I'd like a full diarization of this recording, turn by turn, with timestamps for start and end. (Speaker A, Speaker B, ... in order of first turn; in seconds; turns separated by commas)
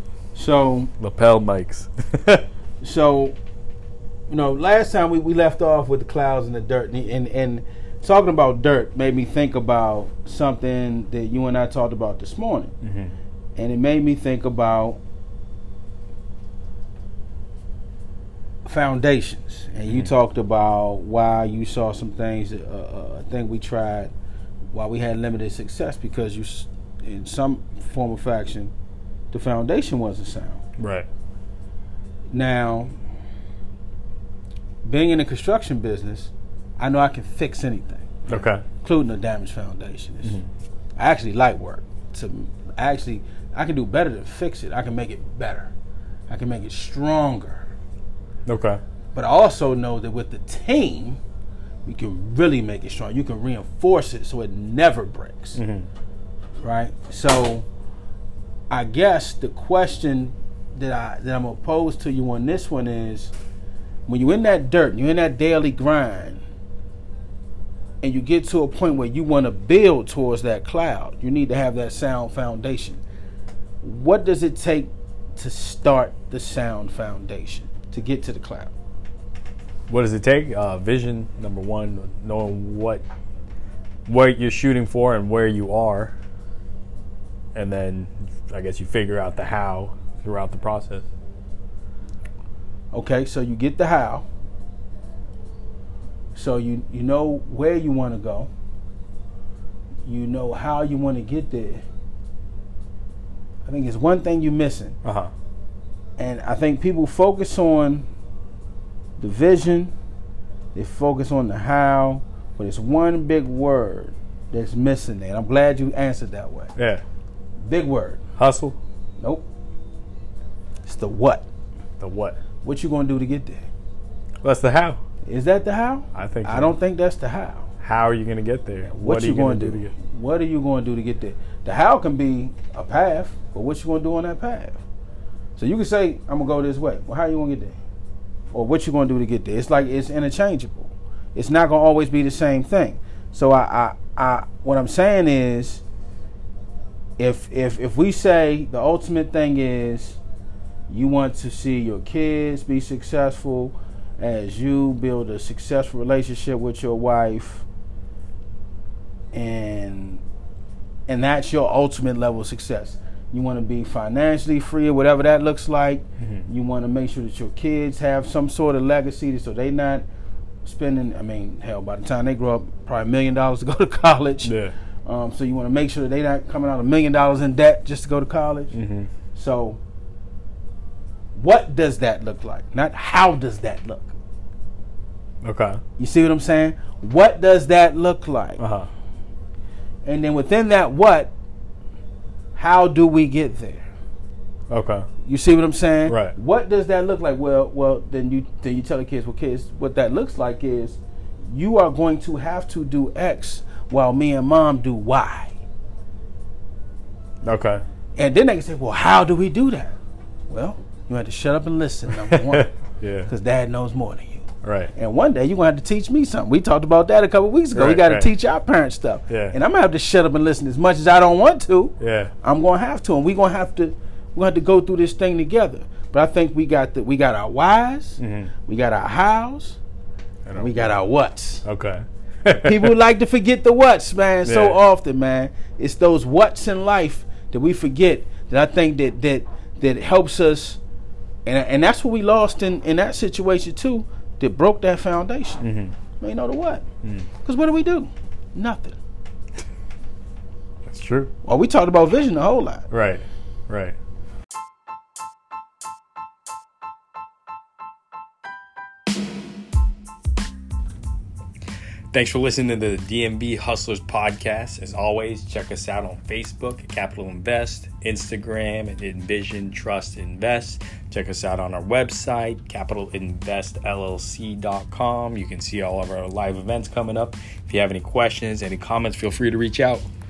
Speaker A: 0.3-0.9, Speaker B: 1.0-2.5, Speaker A: 2.8-3.4, Speaker A: 4.3-12.8, Speaker B: 12.8-13.1, Speaker A: 13.6-15.0, Speaker A: 18.6-24.1, Speaker B: 19.9-20.1, Speaker A: 24.7-28.7, Speaker A: 29.3-30.6, Speaker B: 30.8-31.1, Speaker A: 32.3-32.9, Speaker A: 34.8-40.4, Speaker B: 38.3-38.6, Speaker A: 41.0-45.7, Speaker A: 46.3-47.7, Speaker B: 48.5-48.8, Speaker A: 49.1-51.2, Speaker A: 51.9-55.6, Speaker B: 55.5-55.9, Speaker A: 56.6-57.7, Speaker A: 58.7-63.3, Speaker A: 64.1-66.4, Speaker A: 68.0-73.0, Speaker A: 73.8-78.7, Speaker B: 79.9-83.0, Speaker B: 84.1-86.1, Speaker B: 87.5-91.1, Speaker A: 92.9-94.3, Speaker A: 96.3-98.5, Speaker A: 100.0-101.8, Speaker A: 103.7-105.0, Speaker B: 105.0-105.3, Speaker A: 106.2-108.1, Speaker A: 109.2-109.9, Speaker A: 110.8-116.7, Speaker B: 116.8-117.0, Speaker A: 117.6-118.2, Speaker B: 118.4-118.8, Speaker A: 119.2-119.5, Speaker A: 120.8-121.5, Speaker B: 122.0-122.4, Speaker A: 122.6-123.7, Speaker B: 124.4-125.0, Speaker A: 125.3-127.7, Speaker B: 126.2-126.8, Speaker B: 127.8-129.9, Speaker A: 128.8-134.8, Speaker A: 135.6-137.8, Speaker A: 138.5-145.8, Speaker A: 147.2-150.2, Speaker A: 150.9-157.7, Speaker A: 159.3-160.2, Speaker A: 161.1-170.1, Speaker A: 170.6-178.7, Speaker B: 174.4-174.7, Speaker B: 178.7-179.1, Speaker A: 179.3-179.8, Speaker A: 181.3-184.2, Speaker B: 185.4-185.8, Speaker A: 186.0-188.6, Speaker B: 188.6-188.9, Speaker A: 190.1-191.3, Speaker A: 192.6-193.9, Speaker B: 194.7-195.1, Speaker A: 195.2-201.0, Speaker B: 196.1-196.3, Speaker A: 201.5-205.6, Speaker B: 207.4-207.8, Speaker A: 208.2-210.0, Speaker A: 210.5-212.7, Speaker B: 212.1-213.3, Speaker A: 213.3-229.8, Speaker B: 214.6-214.9, Speaker B: 217.7-218.3, Speaker B: 219.3-219.6, Speaker B: 222.0-222.3, Speaker B: 228.2-228.5, Speaker B: 230.4-230.9, Speaker A: 230.6-231.7, Speaker B: 231.7-232.9, Speaker A: 232.5-240.8, Speaker B: 234.4-234.8, Speaker A: 241.5-245.6, Speaker B: 245.6-245.9, Speaker A: 246.2-246.8, Speaker A: 247.4-249.0, Speaker B: 250.9-251.3, Speaker A: 251.4-252.9, Speaker B: 252.9-254.0, Speaker B: 262.1-280.1